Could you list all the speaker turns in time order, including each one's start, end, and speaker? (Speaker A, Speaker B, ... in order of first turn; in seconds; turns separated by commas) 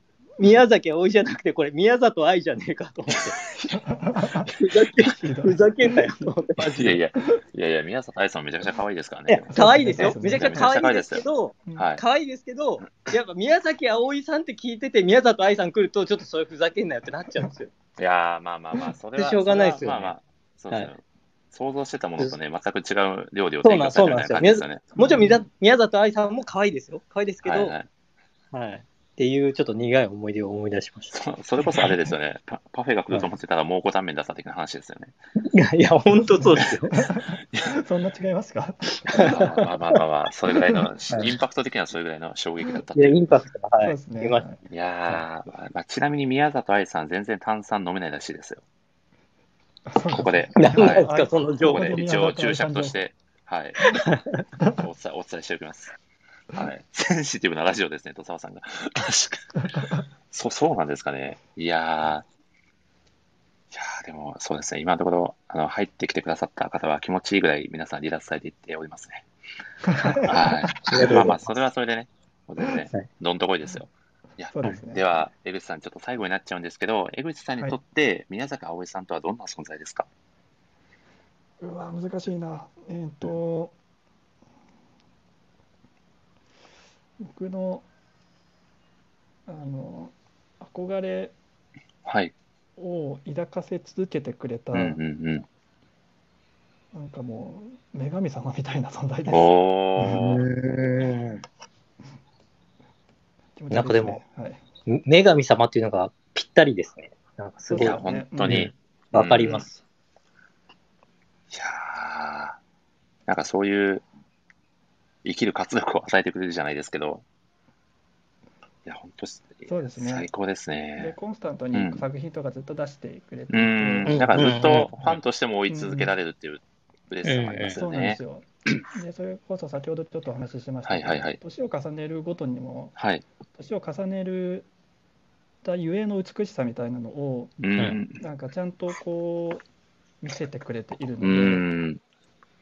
Speaker A: 0.4-3.4, Speaker B: 3.4-3.8, Speaker C: 3.7-4.5, Speaker A: 4.5-7.0, Speaker C: 5.1-6.3, Speaker B: 6.6-11.2, Speaker A: 9.3-17.7, Speaker C: 9.5-10.7, Speaker B: 11.8-12.0, Speaker B: 18.0-24.9, Speaker A: 19.2-20.1, Speaker A: 23.6-27.8, Speaker C: 25.0-25.4, Speaker B: 27.4-27.9, Speaker A: 28.5-31.1, Speaker B: 31.1-35.1, Speaker A: 35.4-37.0, Speaker C: 36.4-39.5, Speaker A: 39.1-39.6, Speaker B: 39.2-43.2, Speaker A: 42.9-44.5, Speaker C: 43.8-44.6, Speaker B: 44.7-48.6, Speaker C: 49.9-53.0, Speaker B: 50.1-51.1, Speaker A: 50.6-52.0, Speaker B: 51.6-54.1, Speaker A: 54.1-54.4, Speaker B: 54.7-55.9, Speaker B: 56.5-59.8, Speaker B: 60.3-62.2, Speaker B: 63.7-69.3, Speaker C: 69.8-70.3, Speaker A: 70.0-71.4, Speaker B: 70.3-80.1, Speaker C: 74.5-75.2, Speaker C: 81.6-83.8, Speaker C: 87.2-87.8, Speaker C: 89.5-91.3, Speaker B: 92.0-92.3, Speaker C: 92.8-95.0, Speaker B: 94.7-95.5, Speaker C: 96.9-100.3, Speaker B: 99.3-100.4, Speaker A: 100.1-101.4, Speaker C: 103.6-104.6, Speaker A: 103.7-104.2, Speaker A: 104.9-109.8, Speaker C: 107.7-108.7, Speaker B: 107.8-109.7, Speaker B: 111.5-112.6, Speaker B: 113.3-114.1, Speaker B: 115.2-117.2, Speaker B: 118.9-121.2, Speaker C: 119.7-120.3, Speaker C: 121.0-125.0, Speaker B: 121.7-122.0, Speaker B: 123.5-128.2, Speaker A: 124.1-124.9, Speaker C: 125.7-126.2, Speaker A: 127.2-127.8, Speaker C: 127.7-133.0, Speaker B: 130.8-131.4, Speaker B: 133.0-133.2, Speaker C: 133.5-134.7, Speaker C: 135.6-139.7, Speaker B: 137.6-138.2, Speaker C: 140.2-141.7, Speaker B: 141.2-142.0